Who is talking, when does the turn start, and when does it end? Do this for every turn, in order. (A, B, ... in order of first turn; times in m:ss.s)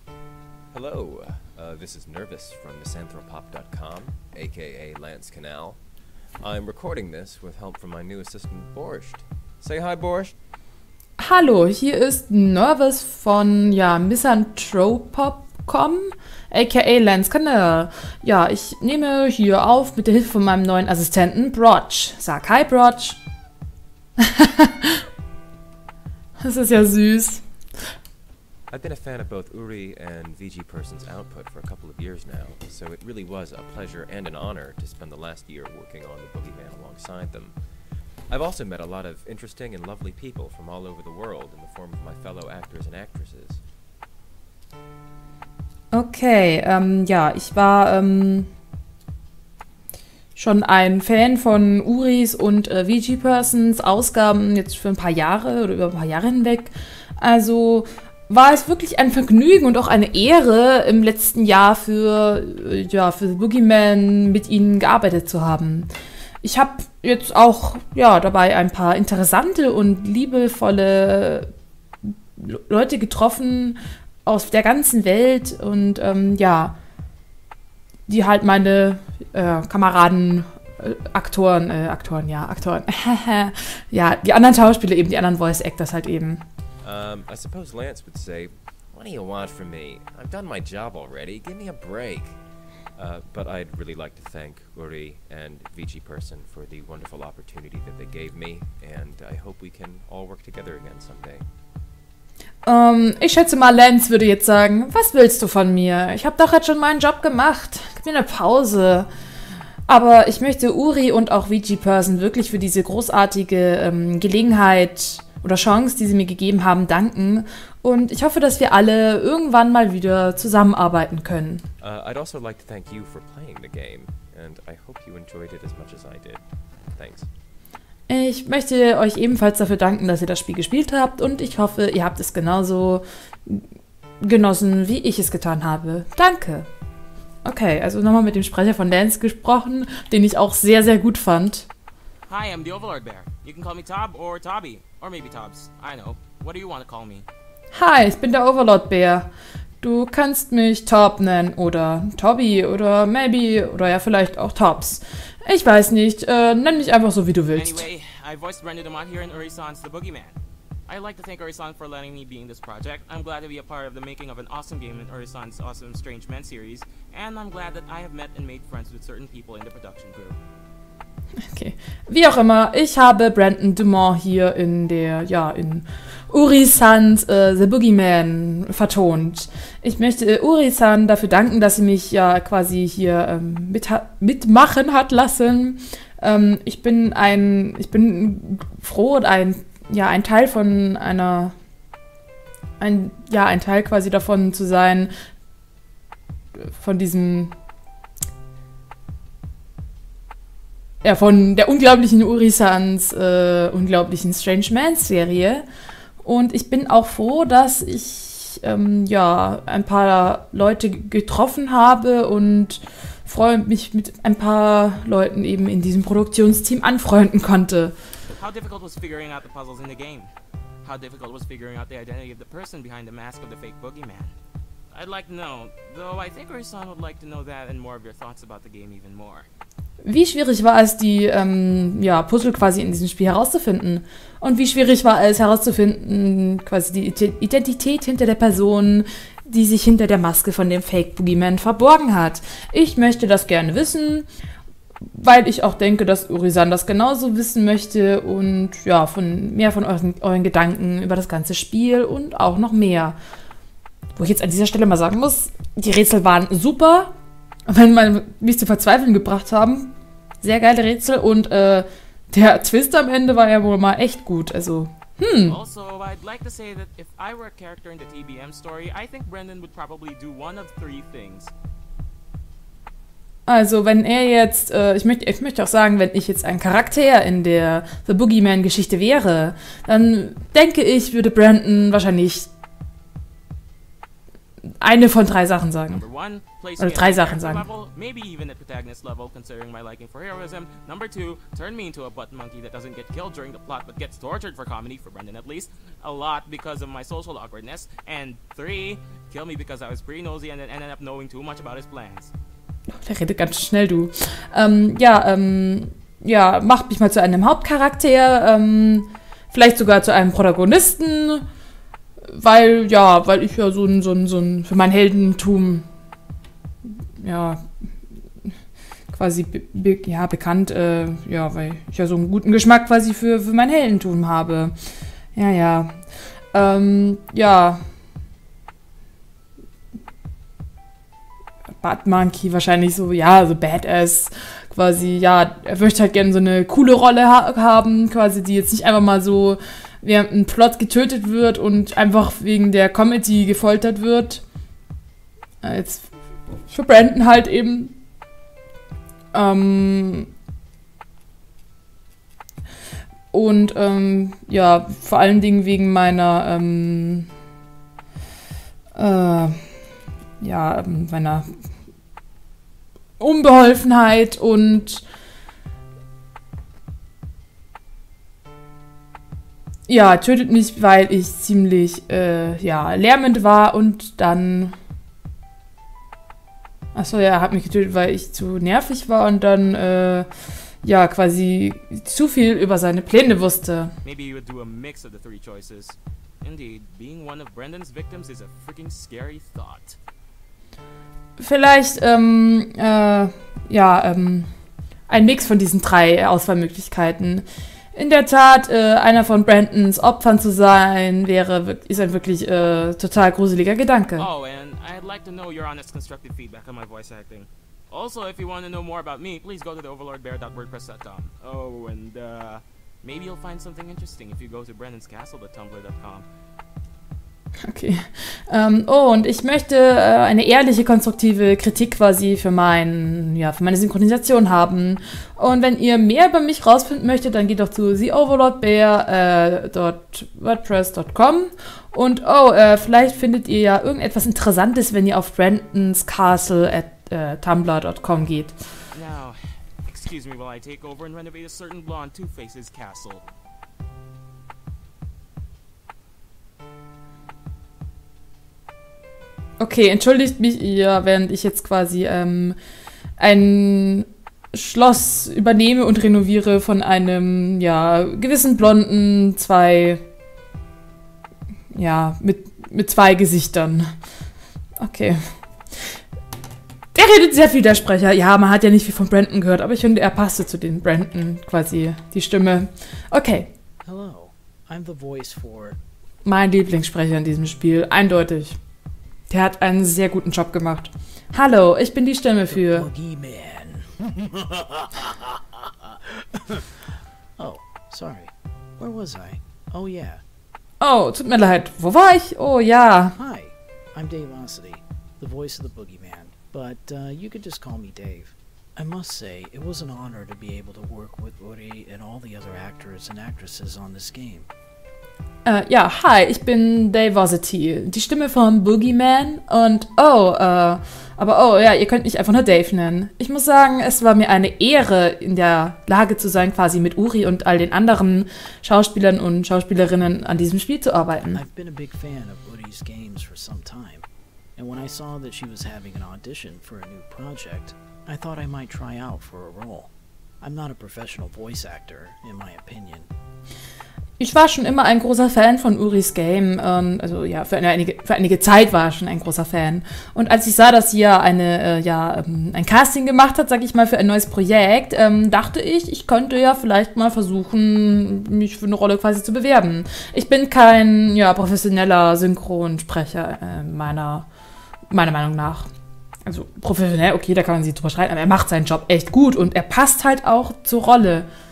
0:00.7-0:05.8 A
0:06.4-0:10.3 A
0:11.2-0:23.2 B
0:24.2-0:25.0 B
0:26.4-0:27.4 B
0:28.7-0:37.5 A
0:38.3-0:43.6 A
0:45.9-0:48.5 B
0:50.4-1:05.9 B
1:06.4-1:11.5 B
1:12.1-1:16.7 B
1:18.1-1:26.4 B
1:26.8-1:32.4 A
1:32.9-1:41.4 A
1:42.6-1:49.1 B
1:49.9-2:01.6 B
2:01.8-2:06.4 A
2:06.9-2:07.3 A
2:08.1-2:13.6 B
2:14.2-2:16.7 B
2:17.4-2:21.7 B
2:22.3-2:27.2 C
2:27.7-2:29.3 B
2:29.8-2:37.9 B
2:37.5-2:40.4 C
2:40.9-2:50.4 C
2:51.5-3:11.5 B
3:12.8-3:15.1 B
3:16.7-3:17.5 B
3:21.0-3:25.6 B
3:26.2-3:37.9 B
3:38.3-3:40.3 C
3:40.8-3:44.4 C
3:44.9-3:49.5 C
3:50.0-4:04.3 B
4:05.1-4:13.2 B
4:14.2-4:17.1 B
4:17.7-4:25.6 B
4:25.4-4:31.5 C
4:33.5-4:42.5 B
4:44.8-4:46.1 B
4:45.9-5:02.3 C
4:46.8-4:47.6 B
5:03.0-5:11.4 B
5:12.3-5:15.8 B
5:17.2-5:17.6 B
5:19.1-5:24.7 B
5:25.3-5:25.9 B
5:26.5-5:27.8 B
5:31.8-5:44.4 B
5:45.6-5:46.1 B
5:46.7-5:48.0 B
5:49.3-5:50.3 B
5:53.3-5:57.3 B
5:59.0-5:59.6 B
6:00.4-6:01.5 B
6:03.2-6:05.0 B
6:09.9-6:14.7 B
6:16.9-6:20.3 B
6:20.8-6:23.9 B
6:24.0-6:30.0 C
6:31.4-6:34.5 B
6:35.1-6:44.3 B
6:44.2-6:56.2 C
6:57.6-7:18.5 B
7:18.9-7:23.2 C
7:29.6-7:32.6 B
7:33.2-7:40.0 B
7:41.7-7:43.9 B
7:44.8-7:45.2 B
7:46.9-7:53.5 B
7:53.8-7:55.8 D
7:56.2-7:58.6 B
7:59.3-8:02.9 B
8:02.5-8:06.6 D
8:07.4-8:10.2 D
8:10.8-8:13.1 B
8:13.2-8:24.5 D
8:25.4-8:41.4 B
8:41.3-8:49.9 D
8:50.4-8:53.1 D
8:54.2-9:14.2 B
9:14.9-9:15.7 B
9:16.2-9:21.3 B